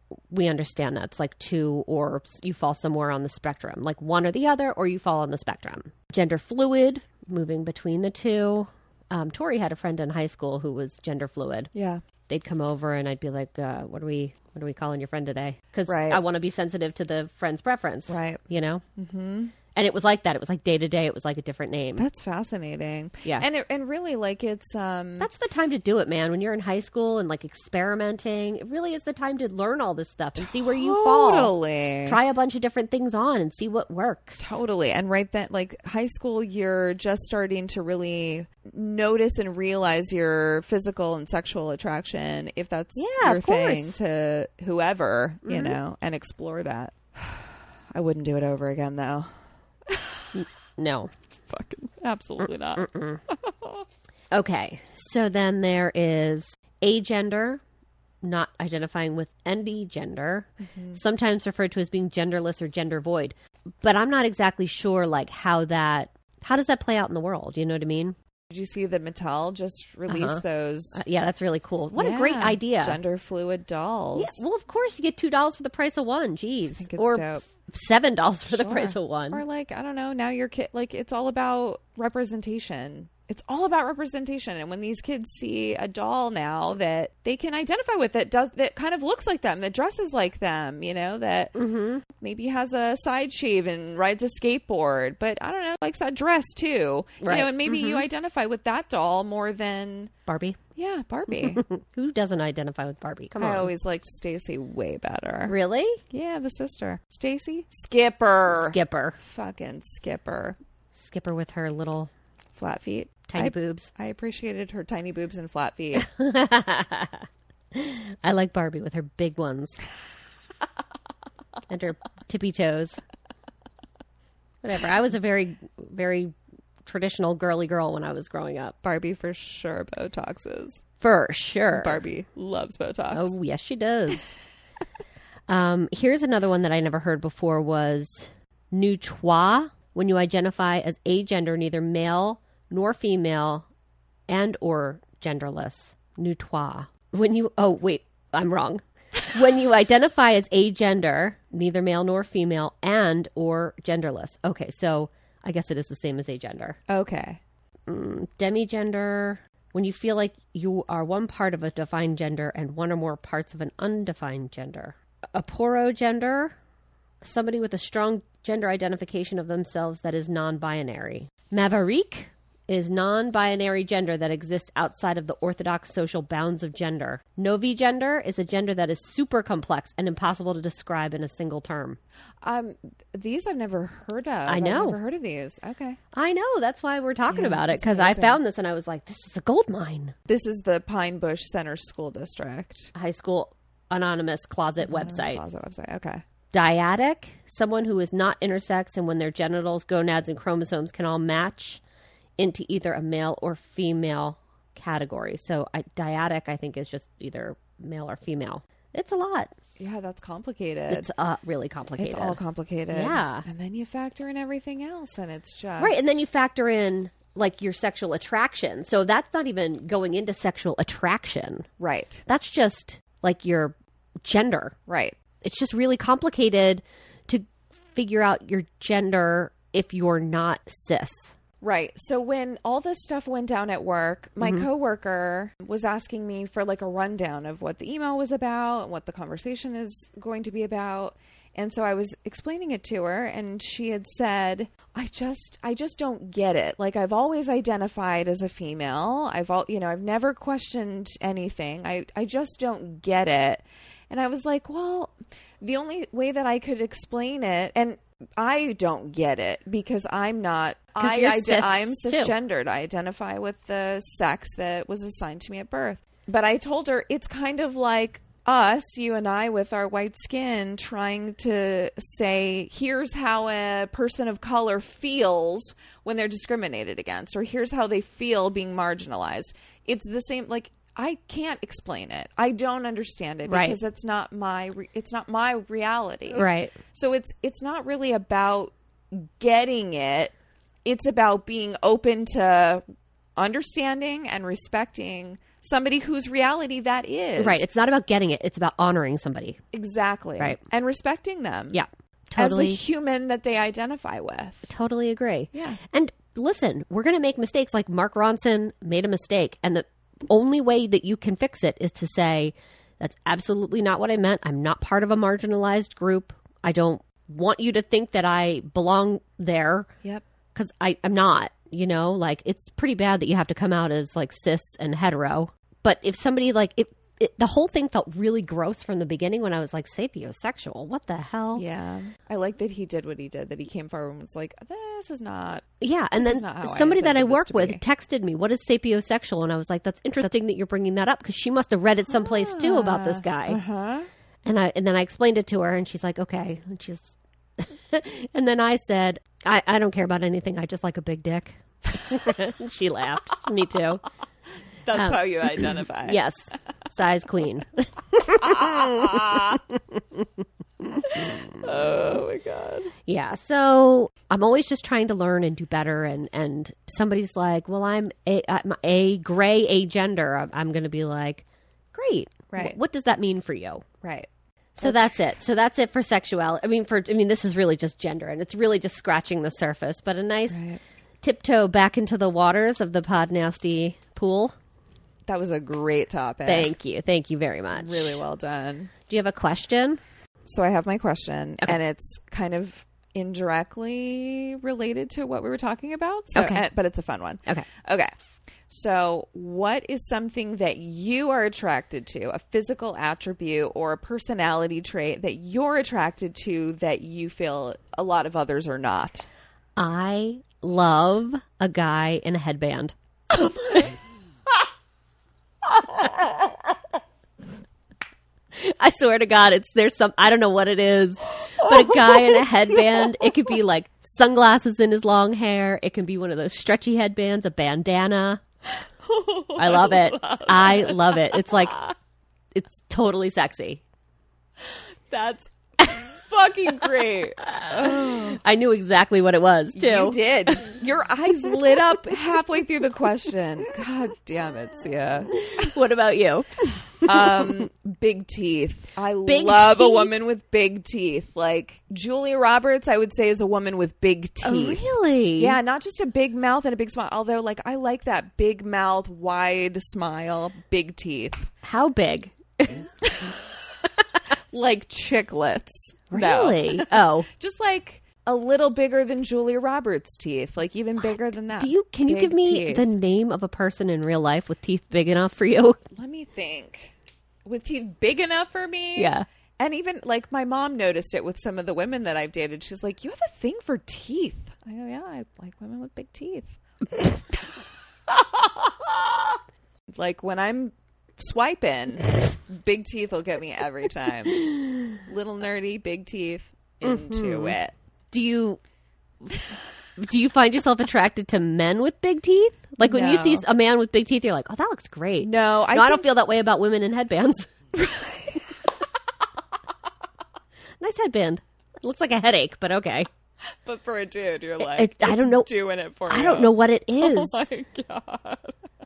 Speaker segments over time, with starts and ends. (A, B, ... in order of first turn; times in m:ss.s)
0:00.3-0:11.7 A
0:11.7-0:12.0 B
0:12.3-0:18.8 A
0:15.9-0:16.2 B
0:18.1-0:18.4 B
0:19.0-0:19.5 B
0:19.7-0:22.0 A
0:22.0-0:25.3 B
0:25.2-0:31.5 A
0:30.4-0:32.2 B
0:32.0-0:34.4 A
0:34.4-0:49.3 B
0:43.0-0:44.0 A
0:45.4-0:45.8 A
0:49.9-0:50.4 B
0:50.3-0:51.1 A
0:51.5-0:53.8 B
0:52.7-0:53.2 A
0:54.3-0:57.6 A
0:58.2-1:08.2 A
1:00.6-1:01.0 B
1:08.5-1:11.0 B
1:10.1-1:10.4 A
1:10.9-1:13.0 A
1:12.0-1:14.4 B
1:14.2-1:19.4 A
1:16.8-1:17.4 B
1:18.5-1:31.6 B
1:31.5-1:32.0 A
1:32.2-1:40.1 B
1:37.2-1:38.0 A
1:40.3-1:40.6 A
1:40.8-1:41.6 B
1:41.3-1:43.7 A
1:43.4-1:45.6 B
1:45.5-1:46.0 A
1:46.1-1:50.6 B
1:48.5-1:49.2 A
1:50.9-1:52.1 A
1:52.6-1:56.1 B
1:53.3-1:53.9 A
1:56.0-1:59.8 A
2:01.7-2:03.0 A
2:04.6-2:06.3 A
2:06.8-2:08.8 A
2:08.8-2:10.8 B
2:11.0-2:12.0 A
2:11.7-2:13.3 B
2:13.1-2:14.3 A
2:15.5-2:23.7 A
2:24.3-2:36.8 A
2:36.9-2:37.4 B
2:37.9-2:46.6 A
2:47.2-3:02.0 A
3:02.4-3:06.0 B
3:04.5-3:05.0 A
3:06.1-3:10.1 A
3:07.3-3:08.4 B
3:10.3-3:12.9 B
3:12.9-3:15.4 A
3:14.8-3:16.2 B
3:16.5-3:21.8 A
3:22.4-3:29.5 A
3:29.8-3:31.1 B
3:30.9-3:32.4 A
3:32.0-3:36.2 B
3:32.9-3:33.4 A
3:35.8-3:41.7 A
3:41.8-3:42.2 B
3:42.3-3:44.8 A
3:44.9-3:45.2 B
3:45.4-3:51.3 A
3:51.6-4:50.3 B
3:54.4-3:54.6 A
4:21.0-4:22.3 A
4:43.5-4:43.8 A
4:46.3-4:46.8 A
4:50.8-4:52.8 B
4:53.4-4:57.6 B
4:57.4-4:59.6 A
4:59.7-5:01.8 B
5:01.7-5:02.8 A
5:02.4-5:04.7 B
5:04.7-5:19.9 A
5:05.5-5:05.8 B
5:20.5-5:31.6 A
5:31.5-5:35.6 B
5:35.8-5:43.6 A
5:36.2-5:37.8 B
5:42.1-5:44.1 B
5:44.4-5:54.0 A
5:54.8-5:56.2 B
5:54.9-6:01.6 A
5:58.4-5:59.6 B
6:01.0-6:02.9 B
6:03.1-6:13.8 A
6:14.0-6:14.3 B
6:14.8-6:20.6 A
6:14.8-6:15.2 B
6:20.5-6:20.8 B
6:21.2-6:24.5 A
6:25.3-6:26.7 B
6:26.4-6:28.2 A
6:27.7-6:28.9 B
6:29.1-6:30.0 A
6:30.4-6:38.1 B
6:36.3-6:36.6 A
6:38.7-6:49.3 B
6:49.8-6:53.9 A
6:58.5-7:08.4 A
7:09.0-7:11.9 B
7:09.6-7:11.8 A
7:12.5-7:13.8 A
7:15.1-7:18.4 B
7:17.7-7:20.2 A
7:19.7-7:25.7 B
7:25.3-7:27.6 A
7:27.0-7:41.5 B
7:29.2-7:30.1 A
7:34.4-7:35.6 A
7:41.6-7:42.9 A
7:43.0-7:43.4 B
7:44.5-7:52.9 B
7:46.1-7:47.3 A
7:51.6-7:55.8 A
7:55.9-7:56.9 B
7:57.4-8:07.1 B
7:59.0-7:59.2 A
8:08.1-8:09.1 B
8:10.0-8:17.7 B
8:16.8-8:17.6 A
8:18.1-8:18.6 A
8:20.0-8:27.5 A
8:22.8-8:23.5 B
8:25.2-8:26.1 B
8:27.7-8:28.4 B
8:30.8-8:33.1 A
8:33.6-8:38.5 B
8:34.6-8:35.5 A
8:36.1-8:37.4 A